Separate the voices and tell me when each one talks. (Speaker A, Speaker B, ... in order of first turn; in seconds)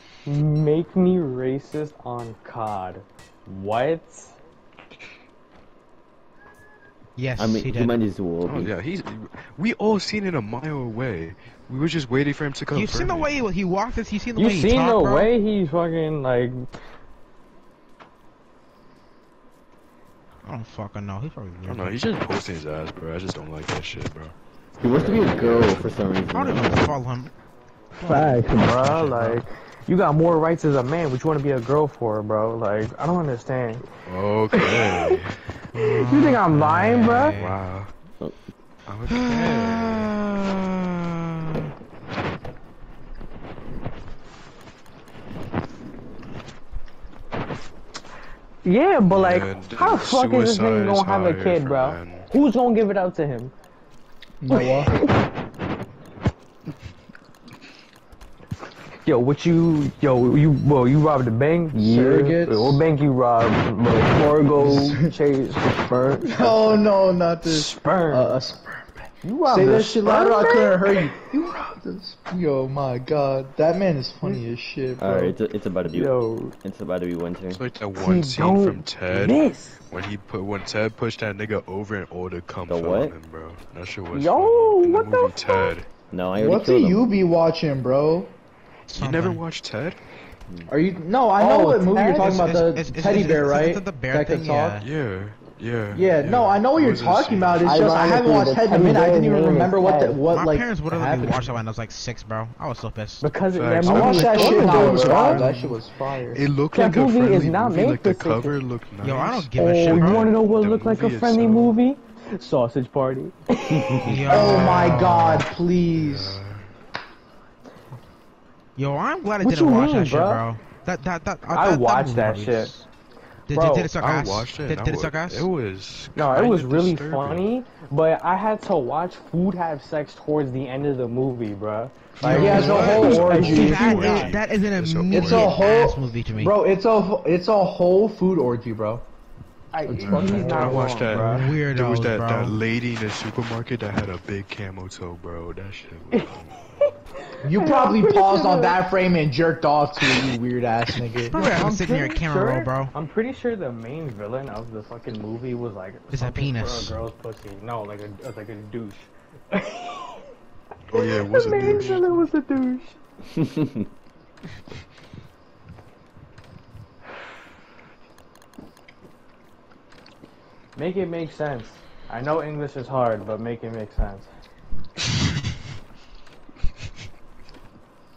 Speaker A: 0.3-4.4, 14.4-16.7, 28.0-33.9, 34.5-35.2, 35.9-37.4, 48.6-53.5, 54.5-55.1, 59.0-66.8, 67.5-68.4, 69.2-71.1, 75.9-76.5, 77.9-79.8, 84.1-85.8, 91.4-92.7, 97.6-100.2, 103.2-105.6, 106.7-108.6, 109.5-114.1, 119.4-120.4, 121.5-122.8, 123.5-123.9, 126.2-134.3, 139.7-141.5, 146.1-148.8, 151.3-160.2, 160.9-163.0, 170.8-174.3
Speaker B: 7.2-8.0, 12.7-15.3, 20.4-22.0, 26.3-27.3, 28.0-29.4, 35.7-37.6, 39.1-41.7, 88.9-89.4, 92.2-94.9, 100.3-103.3, 109.0-110.3, 114.0-115.5, 118.8-122.9, 123.5-125.5, 132.2-136.6, 141.1-142.6, 151.3-152.9, 156.1-157.0
Speaker C: 7.4-8.7, 24.8-27.0, 75.0-77.6, 82.7-83.2, 86.1-87.1, 113.7-114.1, 163.3-163.9
Speaker D: 8.5-13.3, 21.7-24.4, 34.1-35.4, 37.3-37.9, 38.9-40.1, 49.0-52.3, 77.5-85.9, 89.0-90.0, 94.8-98.0, 103.5-105.7, 106.3-111.8, 114.1-115.3, 115.9-116.7, 124.0-127.5, 132.2-135.7, 139.9-146.9, 160.9-162.1
Speaker E: 54.4-55.0, 61.8-62.8, 64.6-65.1, 65.9-75.4, 86.4-88.4, 90.7-94.8, 95.9-101.6, 103.9-106.5, 114.3-116.4, 132.2-134.3, 135.1-139.1, 139.9-140.9, 147.4-151.4